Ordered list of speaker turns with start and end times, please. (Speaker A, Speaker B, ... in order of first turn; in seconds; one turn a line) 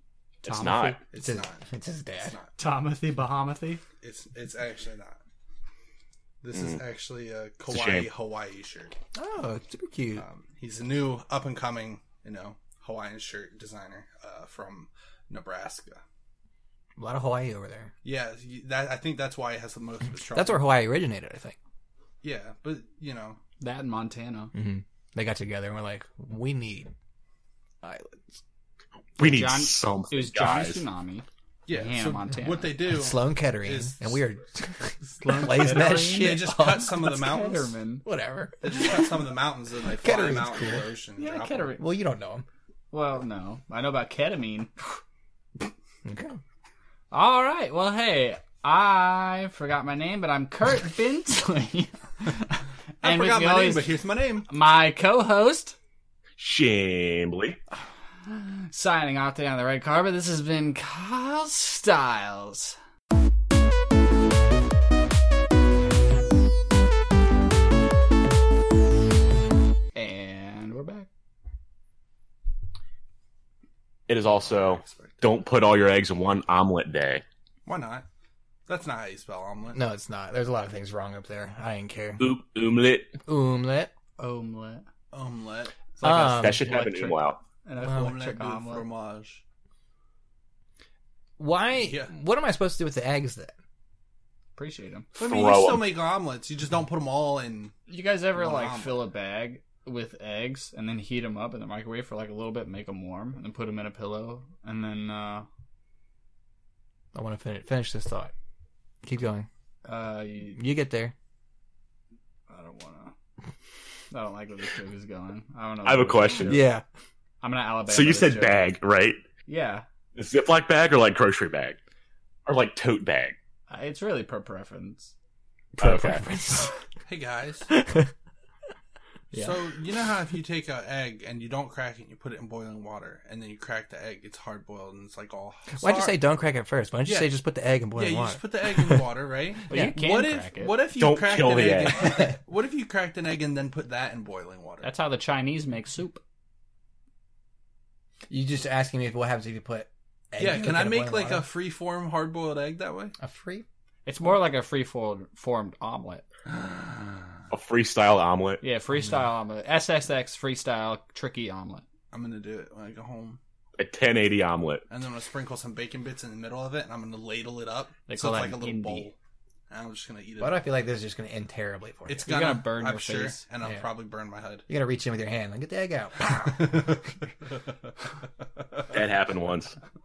Speaker A: 0.4-1.0
Speaker B: 0.4-1.0
Speaker C: 1.1-1.6
Speaker D: 1.2-2.3
Speaker C: 2.2-2.5
Speaker A: 2.6-3.8
Speaker C: 4.0-5.2
Speaker C: 6.4-8.9
Speaker B: 6.5-6.8
Speaker B: 7.7-8.1
Speaker D: 9.1-10.2
Speaker C: 10.2-16.0
Speaker D: 17.0-17.9
Speaker C: 18.0-20.6
Speaker D: 20.3-21.6
Speaker C: 22.2-23.4
Speaker A: 23.6-24.5
Speaker D: 24.5-26.9
Speaker D: 27.8-28.4
Speaker B: 29.2-30.8
Speaker A: 29.2-32.7
Speaker C: 31.7-34.1
Speaker D: 32.9-37.2
Speaker A: 35.2-36.4
Speaker C: 35.3-37.7
Speaker A: 37.0-38.0
Speaker D: 38.0-39.0
Speaker C: 38.6-41.8
Speaker D: 40.0-40.9
Speaker A: 41.2-41.8
Speaker D: 41.8-42.4
Speaker A: 42.9-45.0
Speaker D: 46.0-46.4
Speaker A: 47.1-53.9
Speaker C: 53.0-54.5
Speaker A: 54.5-55.7
Speaker B: 56.4-57.6
Speaker A: 58.4-62.8
Speaker A: 69.9-71.1
Speaker B: 74.1-77.2
Speaker C: 74.3-75.4
Speaker C: 77.7-78.0
Speaker C: 78.7-79.8
Speaker D: 79.7-82.2
Speaker B: 82.2-83.2
Speaker D: 83.2-83.9
Speaker A: 84.2-84.8
Speaker C: 85.1-85.8
Speaker A: 86.0-88.9
Speaker D: 86.0-86.7
Speaker B: 86.1-87.4
Speaker C: 87.8-89.4
Speaker D: 91.4-93.5
Speaker C: 91.8-92.1
Speaker A: 94.5-95.1
Speaker C: 95.2-97.8
Speaker B: 95.2-95.9
Speaker A: 97.9-105.5
Speaker C: 98.3-99.0
Speaker D: 107.1-108.3
Speaker D: 109.0-109.5
Speaker A: 109.8-110.6
Speaker D: 110.5-111.1
Speaker A: 112.5-113.1
Speaker A: 114.1-116.7
Speaker B: 115.8-116.6
Speaker D: 116.5-116.8
Speaker A: 117.4-118.7
Speaker B: 117.9-119.2
Speaker A: 119.5-119.8
Speaker B: 120.2-121.8
Speaker B: 122.5-123.3
Speaker A: 123.7-125.1
Speaker B: 125.8-126.2
Speaker D: 125.8-126.7
Speaker C: 127.0-127.7
Speaker D: 127.7-128.1
Speaker A: 129.3-129.6
Speaker C: 129.3-136.2
Speaker D: 135.8-139.1
Speaker C: 137.9-144.9
Speaker A: 139.7-140.8
Speaker D: 139.7-140.0
Speaker B: 140.9-142.2
Speaker A: 144.8-146.2
Speaker D: 148.3-151.4
Speaker C: 150.4-153.1
Speaker D: 153.2-153.6
Speaker A: 154.1-156.2
Speaker C: 156.5-157.4
Speaker B: 157.5-158.6
Speaker A: 158.6-161.8
Speaker C: 162.1-163.4
Speaker B: 163.8-164.8
Speaker C: 164.9-169.2
Speaker A: 168.1-169.1
Speaker C: 169.7-170.6
Speaker D: 170.4-172.2
Speaker C: 172.1-174.7
Speaker A: 172.2-173.4
Speaker D: 174.7-177.0
Speaker C: 176.3-177.0
Speaker B: 178.9-179.8